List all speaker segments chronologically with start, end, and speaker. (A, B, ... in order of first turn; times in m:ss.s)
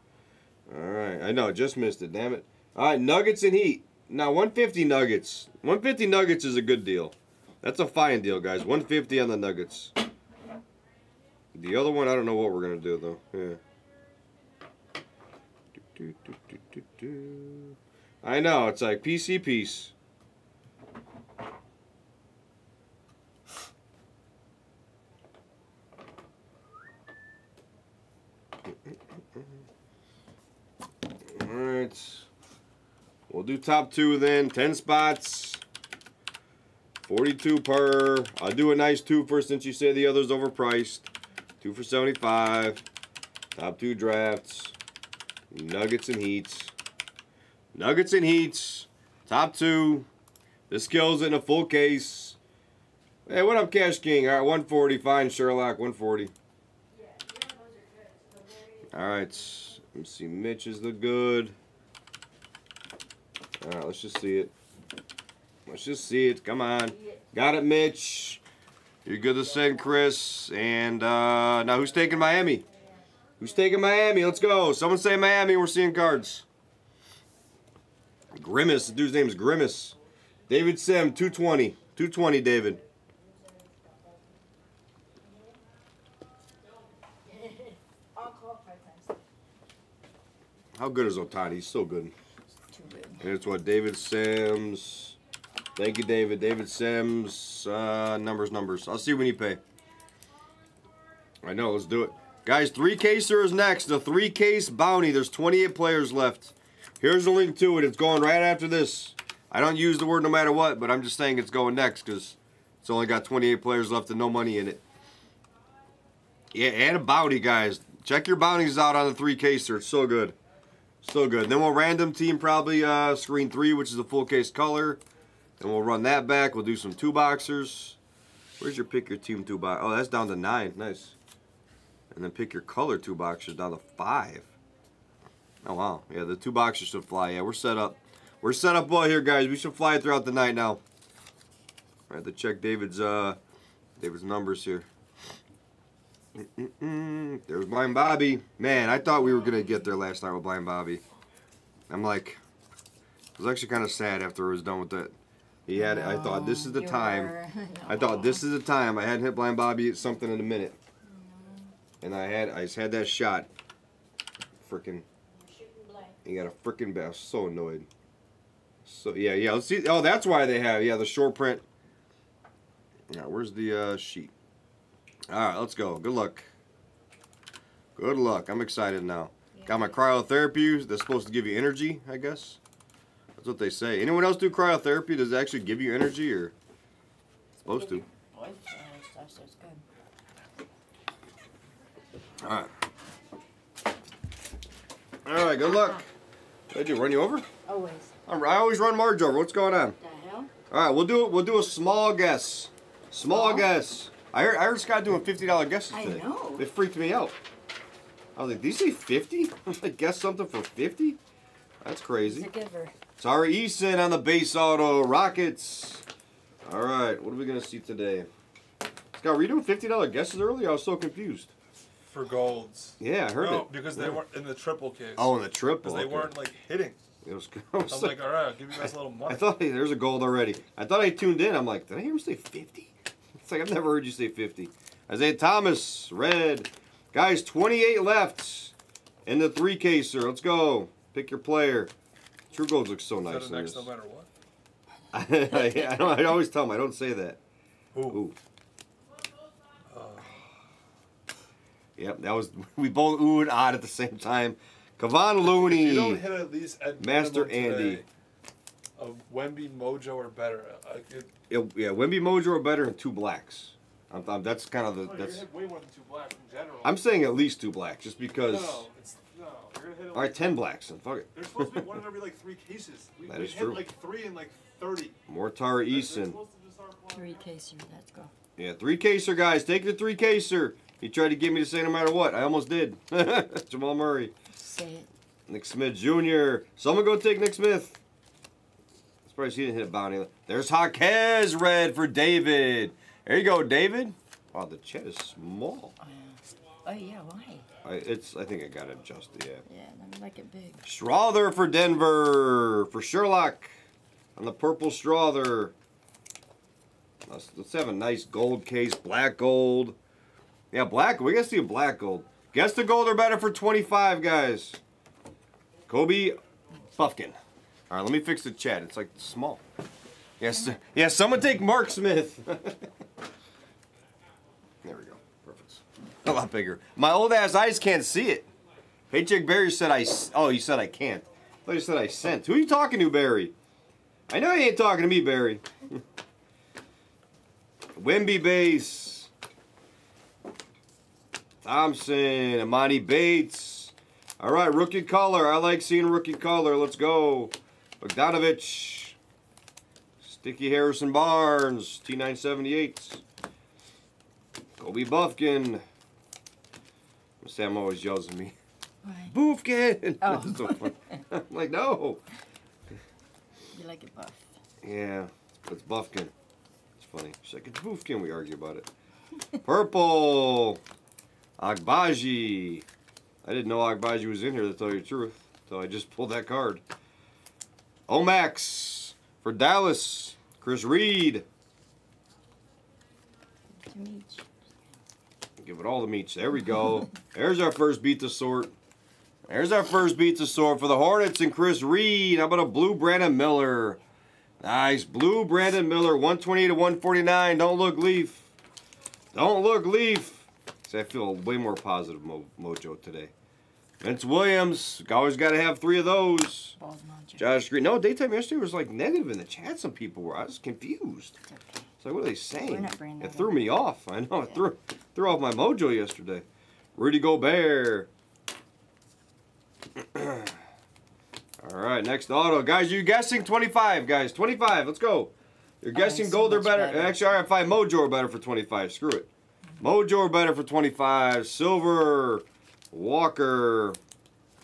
0:00.7-0:09.9 A
0:11.5-0:13.6 A
0:15.9-0:19.9 A
0:31.3-0:32.3 A
0:33.3-0:35.6 A
0:37.0-0:41.1 A
0:41.6-0:42.8 A
0:43.5-0:44.7 A
0:45.5-0:46.7 A
0:47.7-0:50.1 A
0:50.7-0:52.4 A
0:53.2-0:56.3 A
0:56.9-0:58.9 B
0:58.9-1:01.5 A
1:03.6-1:04.5 A
1:05.7-1:08.4 A
1:09.0-1:12.6 A
1:13.4-1:16.4 A
1:18.3-1:20.0 A
1:20.5-1:22.8 A
1:27.2-1:29.2 B
1:30.8-1:32.1 A
1:32.7-1:33.2 B
1:33.2-1:35.2 A
1:35.8-1:39.6 A
1:41.4-1:54.8 A
1:56.5-2:00.4 A
2:01.0-2:05.0 A
2:05.6-2:08.0 A
2:08.6-2:11.1 A
2:12.1-2:14.5 A
2:15.6-2:20.8 A
2:22.1-2:23.4 A
2:24.0-2:24.9 A
2:26.4-2:31.0 A
2:31.9-2:32.4 A
2:33.4-2:35.1 A
2:35.7-2:37.3 A
2:35.8-2:38.4 B
2:37.9-2:40.8 A
2:41.0-2:41.7 B
2:42.0-2:43.5 A
2:44.6-2:45.0 A
2:45.4-2:46.2 B
2:46.2-2:47.9 A
2:48.8-2:51.6 A
2:53.1-2:54.3 A
2:55.3-2:56.5 A
2:58.0-3:02.6 A
2:59.5-3:00.0 B
3:03.4-3:06.5 A
3:07.6-3:09.8 B
3:07.6-3:08.0 A
3:12.4-3:12.7 A
3:15.2-3:16.0 A
3:16.7-3:17.5 A
3:17.6-3:18.1 B
3:18.2-3:20.0 A
3:20.0-3:20.5 B
3:20.7-3:27.4 A
3:23.2-3:23.7 B
3:25.9-3:26.7 B
3:28.4-3:31.2 A
3:31.8-3:32.5 A
3:32.2-3:33.0 B
3:33.2-3:36.0 A
3:36.6-3:38.3 A
3:39.2-3:41.5 A
3:42.1-3:47.0 C
3:43.0-3:44.2 A
3:45.2-3:46.4 A
3:47.2-3:48.2 A
3:47.9-3:49.5 C
3:49.2-3:58.7 A
3:59.2-4:01.9 A
4:02.5-4:03.9 A
4:03.2-4:04.3 C
4:05.1-4:07.4 A
4:07.9-4:08.2 C
4:08.1-4:08.4 A
4:09.9-4:10.4 C
4:12.0-4:16.2 A
4:15.4-4:18.0 C
4:17.0-4:18.0 A
4:19.0-4:21.3 C
4:21.5-4:25.4 A
4:25.0-4:27.0 C
4:26.8-4:28.9 A
4:28.5-4:30.6 C
4:30.1-4:31.9 A
4:31.3-4:35.2 C
4:33.3-4:33.9 A
4:35.3-4:36.4 A
4:35.9-4:37.5 C
4:37.1-4:38.3 B
4:38.6-4:44.3 A
4:44.5-4:45.1 B
4:45.5-4:48.0 A
4:49.3-4:55.9 A
4:56.0-4:57.7 B
4:57.8-4:59.6 A
4:59.6-5:00.8 B
5:00.8-5:03.7 A
5:04.4-5:05.7 A
5:07.3-5:10.0 A
5:10.7-5:14.8 A
5:15.9-5:16.4 A
5:16.9-5:17.4 A
5:17.9-5:19.6 A
5:20.4-5:22.9 A
5:24.8-5:28.5 A
5:29.1-5:33.5 A
5:34.3-5:36.0 A
5:37.9-5:39.3 A
5:41.6-5:49.2 A
5:50.2-5:53.2 A
5:54.8-5:55.8 A
5:57.4-5:58.6 A
5:59.0-5:59.4 B
5:59.3-6:02.2 A
6:00.2-6:01.2 B
6:03.7-6:04.5 B
6:04.8-6:06.3 A
6:07.0-6:08.9 A
6:09.6-6:10.8 A
6:11.6-6:12.8 A
6:13.4-6:16.8 A
6:18.1-6:21.4 A
6:23.7-6:24.5 B
6:25.6-6:28.7 A
6:29.5-6:34.0 A
6:34.6-6:38.5 A
6:39.3-6:43.3 A
6:44.0-6:46.8 A
6:46.8-6:47.5 B
6:47.4-6:51.4 A
6:51.4-6:51.9 B
6:52.0-6:58.1 A
6:52.5-6:53.7 B
7:00.0-7:00.6 A
7:01.6-7:09.3 A
7:05.9-7:07.4 B
7:09.8-7:14.0 A